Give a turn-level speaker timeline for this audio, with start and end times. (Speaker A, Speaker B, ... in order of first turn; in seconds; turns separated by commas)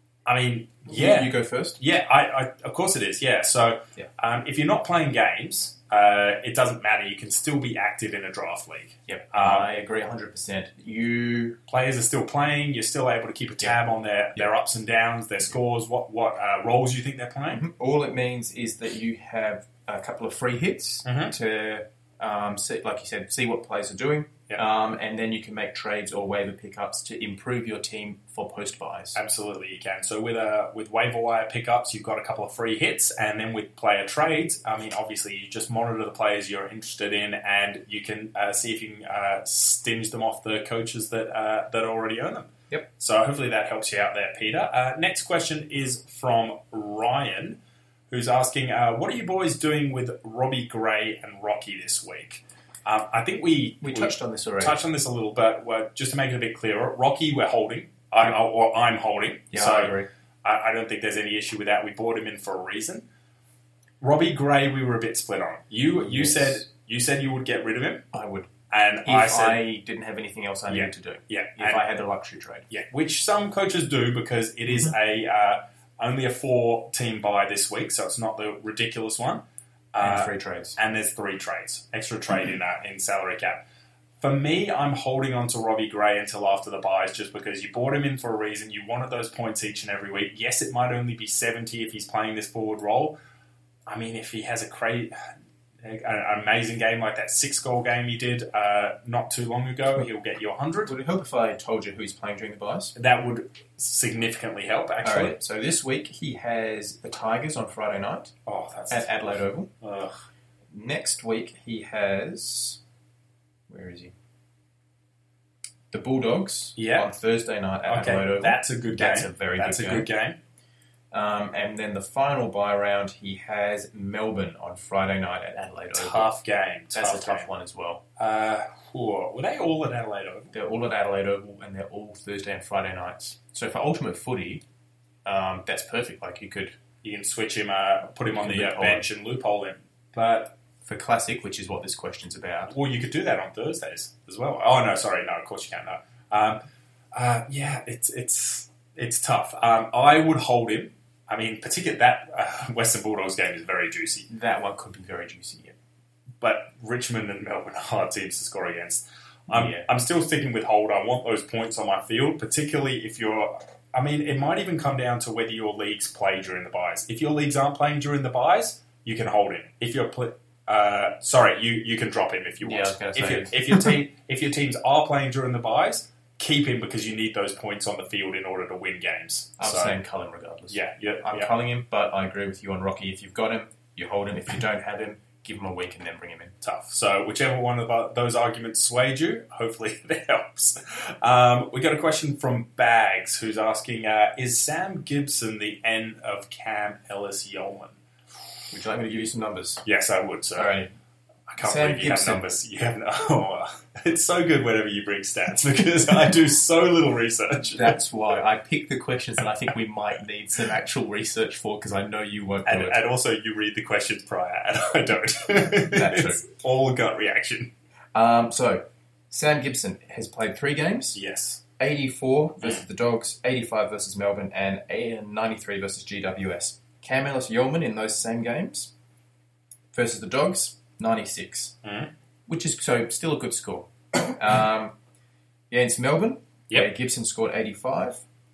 Speaker A: 0.3-9.7, Speaker B: 0.9-1.8, Speaker B: 9.1-11.6, Speaker A: 11.7-17.6, Speaker B: 17.5-29.2, Speaker A: 21.1-21.3, Speaker A: 29.1-47.6, Speaker A: 48.1-63.1, Speaker B: 53.8-54.8, Speaker B: 59.5-60.1, Speaker A: 64.0-68.1, Speaker B: 66.0-66.7, Speaker B: 68.1-68.5, Speaker A: 68.7-69.6, Speaker B: 69.0-72.7, Speaker A: 70.7-71.8, Speaker A: 72.7-79.4, Speaker A: 79.9-83.6, Speaker B: 80.0-80.8, Speaker A: 84.2-93.2, Speaker A: 93.9-95.2, Speaker A: 95.8-101.0, Speaker B: 100.8-102.9, Speaker A: 103.0-105.4, Speaker B: 105.0-108.3, Speaker A: 108.5-109.2, Speaker B: 108.9-109.7, Speaker A: 109.8-110.2, Speaker B: 110.7-112.8, Speaker B: 113.7-114.1, Speaker B: 115.9-120.1, Speaker A: 116.8-117.1, Speaker A: 117.9-120.4, Speaker B: 121.1-126.3, Speaker A: 126.0-127.5, Speaker B: 126.9-128.0, Speaker A: 128.2-130.5, Speaker B: 130.5-134.6, Speaker B: 135.2-136.8, Speaker A: 137.0-140.6, Speaker B: 138.3-139.1, Speaker B: 140.8-142.7, Speaker A: 142.7-146.6, Speaker A: 147.1-154.3, Speaker B: 154.3-155.8, Speaker A: 156.4-180.0, Speaker B: 159.5-159.9, Speaker B: 172.6-173.9, Speaker B: 179.6-186.5, Speaker A: 180.7-181.5, Speaker A: 186.6-198.0, Speaker B: 198.7-199.8, Speaker A: 199.8-200.7, Speaker B: 200.6-200.9, Speaker A: 201.5-208.0, Speaker B: 201.6-202.5, Speaker B: 207.7-213.0, Speaker A: 212.7-217.7, Speaker B: 215.8-216.4, Speaker B: 218.1-221.2, Speaker A: 221.1-221.6, Speaker B: 221.8-228.9, Speaker B: 229.9-231.8, Speaker A: 231.8-232.1, Speaker B: 232.5-234.9, Speaker B: 235.7-238.2